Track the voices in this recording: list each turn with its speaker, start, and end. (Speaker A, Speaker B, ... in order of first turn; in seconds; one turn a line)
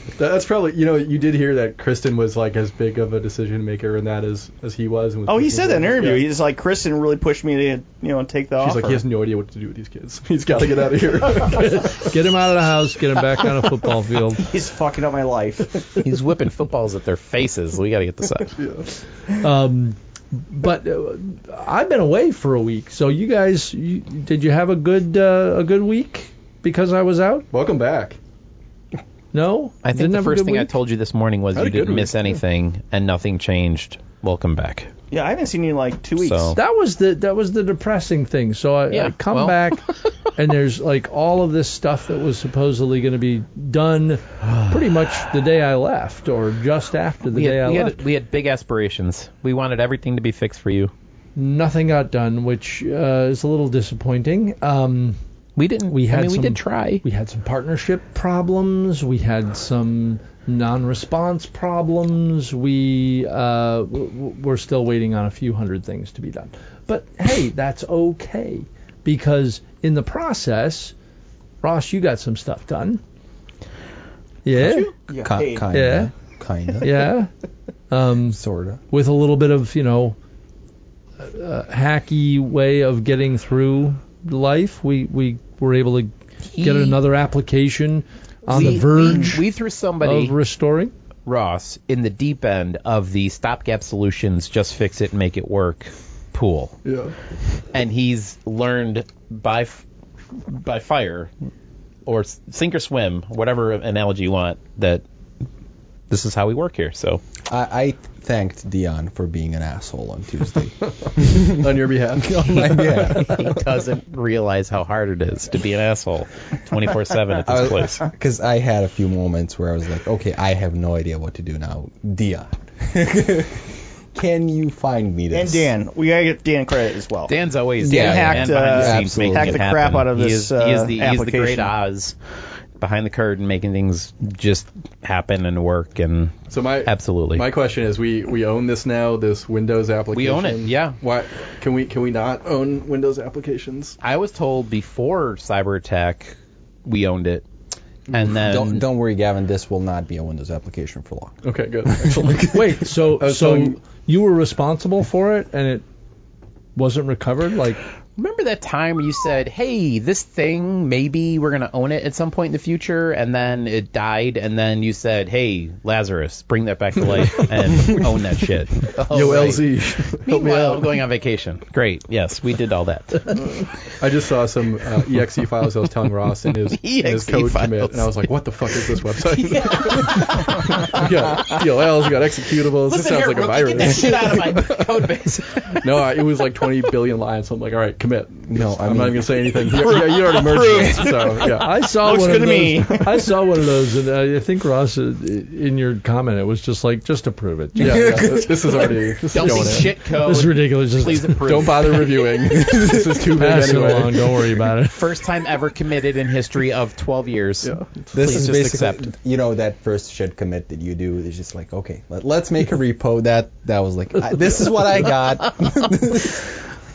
Speaker A: 0.1-6.3
Speaker B: 5.3-9.0
Speaker A: 8.6-11.8
Speaker C: 11.3-14.5
Speaker B: 14.4-15.8
Speaker D: 16.0-18.5
Speaker A: 18.5-18.9
Speaker C: 19.3-27.5
Speaker A: 27.5-28.2
Speaker C: 29.3-30.7
Speaker D: 29.8-34.9
Speaker A: 31.5-32.4
Speaker B: 35.1-36.6
Speaker D: 36.2-36.6
Speaker C: 36.5-39.8
Speaker D: 38.9-40.1
Speaker C: 40.3-48.0
Speaker D: 44.4-44.7
Speaker D: 47.3-50.9
Speaker C: 51.4-55.2
Speaker D: 55.5-57.0
Speaker C: 55.9-70.9
Speaker C: 71.6-73.0
Speaker C: 74.4-74.9
Speaker B: 75.1-75.7
Speaker E: 75.2-77.0
Speaker C: 75.7-76.1
Speaker C: 76.8-77.3
Speaker C: 77.9-78.4
Speaker E: 78.3-78.8
Speaker C: 78.9-80.2
Speaker C: 81.2-89.4
Speaker D: 86.5-87.0
Speaker D: 88.5-90.3
Speaker C: 90.0-90.9
Speaker D: 91.2-96.7
Speaker A: 96.8-97.1
Speaker D: 97.7-99.8
Speaker D: 100.5-101.3
Speaker D: 102.0-105.0
Speaker D: 106.1-107.2
Speaker E: 107.5-111.7
Speaker A: 111.2-113.0
Speaker E: 112.2-113.5
Speaker D: 112.7-118.0
Speaker E: 117.5-125.7
Speaker B: 125.3-131.7
Speaker D: 127.3-132.2
Speaker E: 127.8-129.9
Speaker D: 132.8-137.4
Speaker A: 136.5-144.0
Speaker D: 140.1-141.0
Speaker D: 144.0-147.4
Speaker D: 148.1-148.8
Speaker E: 148.1-152.5
Speaker A: 151.4-153.8
Speaker C: 152.4-155.8
Speaker C: 156.8-157.8
Speaker D: 158.2-173.4
Speaker A: 168.9-170.9
Speaker A: 174.0-191.7
Speaker D: 176.7-181.8
Speaker D: 182.8-185.9
Speaker E: 188.5-189.9
Speaker D: 189.9-190.4
Speaker B: 190.3-191.4
Speaker C: 191.5-198.2
Speaker B: 192.0-193.3
Speaker A: 197.8-200.2
Speaker E: 197.8-198.8
Speaker D: 199.3-202.3
Speaker C: 200.0-201.6
Speaker A: 201.2-204.5
Speaker E: 202.7-203.0
Speaker C: 203.3-205.0
Speaker D: 204.8-209.1
Speaker A: 207.6-208.2
Speaker E: 208.1-216.4